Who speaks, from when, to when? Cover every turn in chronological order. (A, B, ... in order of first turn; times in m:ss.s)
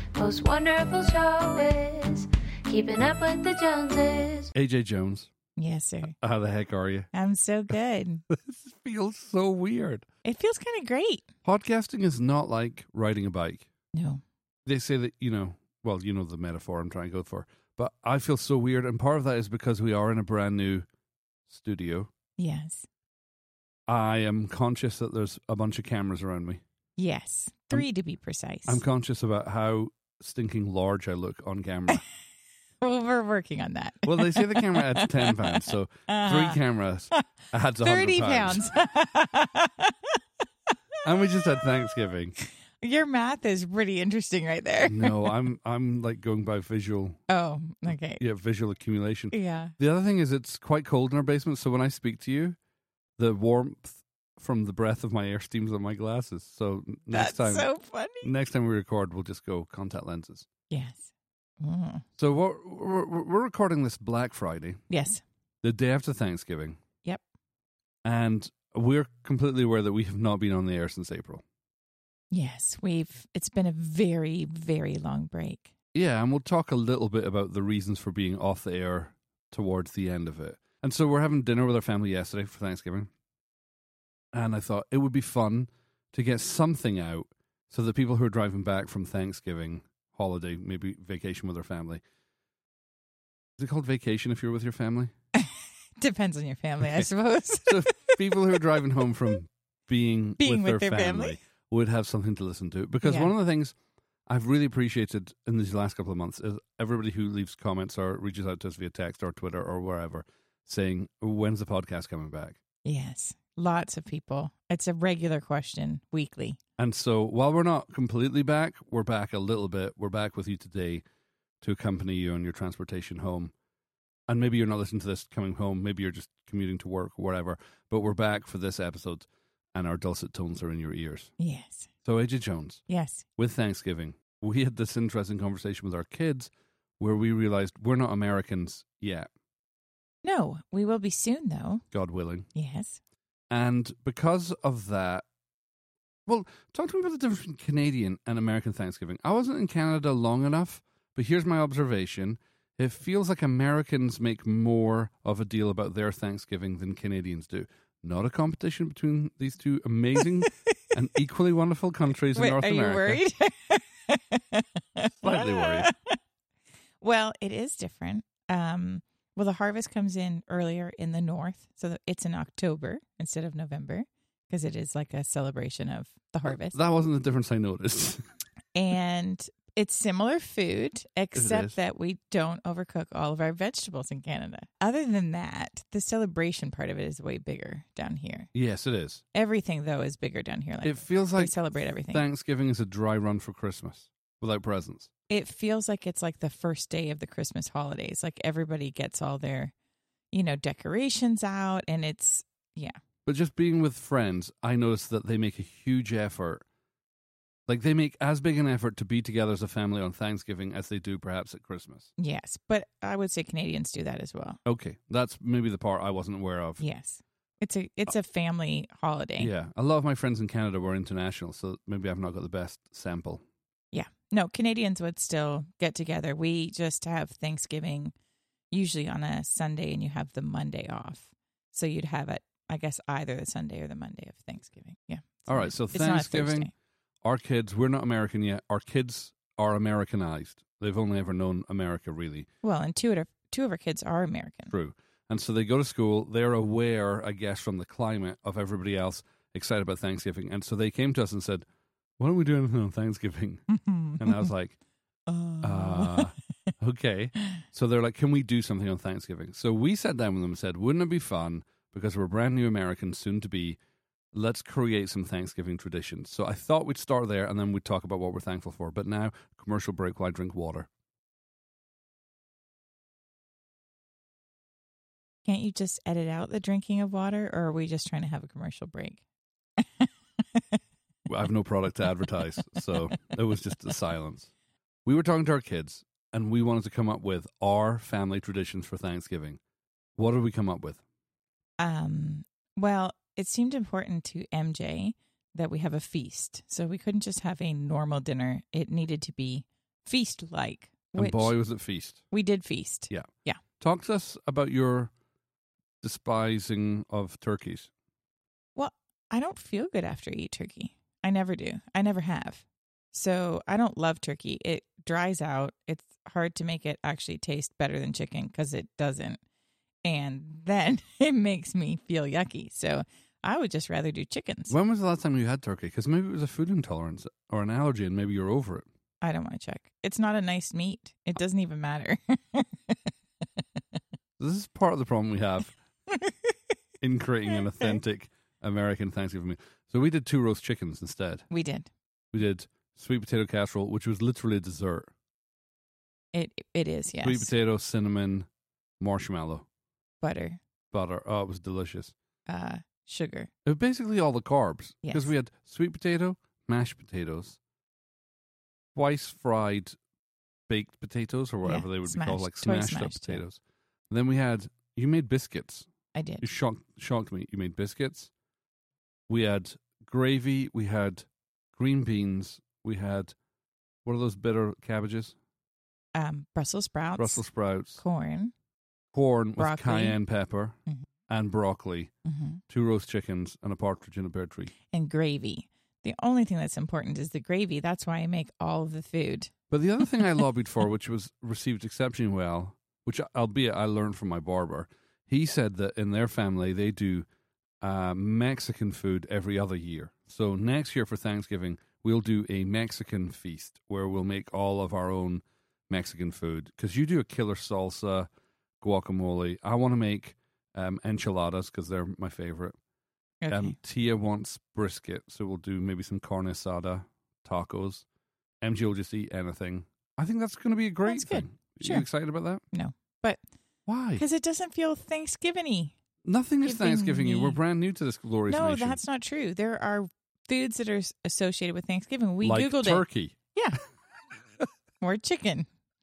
0:00.2-0:04.5 A
0:04.5-0:05.3 B
0:05.6-0:06.2 C
0:06.2-0:07.1 B
0:07.1-0:08.2 C
0:08.3-0:10.0 B
0:10.2-0:11.2 C
0:11.4-0:13.7 B
0:13.9-0:14.2 C
0:14.6-0:20.8 B
0:21.5-0:22.1 B
0:22.4-0:22.8 C
0:23.9-0:26.6 B
0:27.0-0:28.8 C
0:28.7-0:32.0 B
0:32.8-0:36.6 C
0:34.0-0:38.6 B
0:37.8-0:40.2 C
0:41.0-0:42.3 B
0:42.4-0:45.3 C
0:44.8-0:47.2 B
0:47.3-0:48.2 C
0:47.9-0:52.6 B
0:49.3-0:49.7 C
0:53.2-0:57.7 B
0:57.1-0:58.3 C
0:58.2-1:00.5 B
1:00.7-1:01.1 C
1:01.6-1:02.0 C
1:02.2-1:04.8 B
1:04.9-1:05.2 C
1:05.6-1:06.8 B
1:08.0-1:11.4 B
1:12.3-1:15.7 C
1:15.9-1:23.1 B
1:24.3-1:32.0 B
1:33.6-1:35.1 B
1:35.4-1:38.2 C
1:36.8-1:37.1 B
1:37.6-1:43.7 B
1:40.4-1:41.4 C
1:43.0-1:43.3 C
1:44.3-1:52.6 B
1:52.8-1:56.6 C
1:56.8-2:01.0 B
2:01.6-2:03.5 B
2:04.3-2:11.3 B
2:11.4-2:11.9 C
2:12.0-2:12.8 B
2:12.9-2:13.2 C
2:13.4-2:19.3 B
2:20.2-2:21.8 C
2:21.9-2:22.5 B
2:22.5-2:23.0 C
2:23.5-2:25.2 B
2:26.2-2:43.2 B
2:42.3-2:46.2 C
2:45.2-2:45.9 B
2:47.0-2:56.8 C
2:56.5-2:58.2 B
2:58.7-3:08.5 C
3:01.3-3:01.8 B
3:08.5-3:09.2 B
3:09.3-3:12.2 C
3:10.8-3:11.5 B
3:12.1-3:15.1 B
3:15.3-3:19.7 C
3:20.3-3:23.0 C
3:23.2-3:26.6 B
3:27.7-3:32.1 B
3:32.2-3:34.6 C
3:34.6-3:36.8 B
3:36.8-3:39.5 C
3:39.4-3:43.4 B
3:43.9-3:48.1 C
3:48.7-3:56.7 C
3:55.5-3:56.7 B
3:57.2-4:02.5 B
4:02.6-4:04.7 C
4:04.7-4:11.6 B
4:12.2-4:13.6 B
4:13.7-4:14.5 C
4:14.2-4:14.8 B
4:15.3-4:16.3 C
4:15.6-4:23.8 B
4:24.3-4:30.9 B
4:35.4-4:39.2 C
4:39.8-4:40.8 C
4:41.3-4:44.5 B
4:45.0-4:49.6 B
4:50.2-4:51.0 B
4:51.8-5:01.5 C
5:01.2-5:02.2 B
5:02.3-5:03.6 C
5:03.8-5:05.1 B
5:06.0-5:07.9 B
5:08.8-5:19.4 C
5:20.0-5:24.8 C
5:24.7-5:28.8 B
5:29.2-5:33.1 C
5:34.4-5:35.8 B
5:37.0-5:41.5 B
5:41.5-5:41.9 C
5:42.3-5:45.1 B
5:46.3-5:47.5 C
5:47.2-5:48.5 B
5:49.0-5:49.6 B
5:50.2-5:50.6 C
5:50.9-5:52.1 B
5:52.5-5:53.5 C
5:53.6-5:57.6 B
5:55.0-5:55.3 C
5:58.9-6:00.0 B
6:00.7-6:05.9 B
6:01.6-6:03.4 C
6:06.1-6:06.4 C
6:06.4-6:08.3 B
6:09.3-6:13.3 B
6:14.0-6:15.3 B
6:16.1-6:18.5 C
6:17.2-6:18.0 B
6:19.1-6:20.8 B
6:19.6-6:20.2 C
6:21.3-6:22.1 B
6:22.2-6:22.6 C
6:22.7-6:24.7 B
6:24.9-6:29.5 C
6:29.7-6:37.2 B
6:37.8-6:48.3 B
6:48.8-6:52.8 B
6:53.4-6:53.8 C
6:53.5-6:58.0 B
6:58.6-7:02.6 B
7:01.1-7:02.1 C
7:02.7-7:03.4 C
7:03.9-7:04.2 B
7:04.1-7:05.9 C
7:06.2-7:09.0 B
7:06.6-7:07.6 C
7:08.5-7:13.8 C
7:12.4-7:13.4 B
7:15.0-7:15.7 C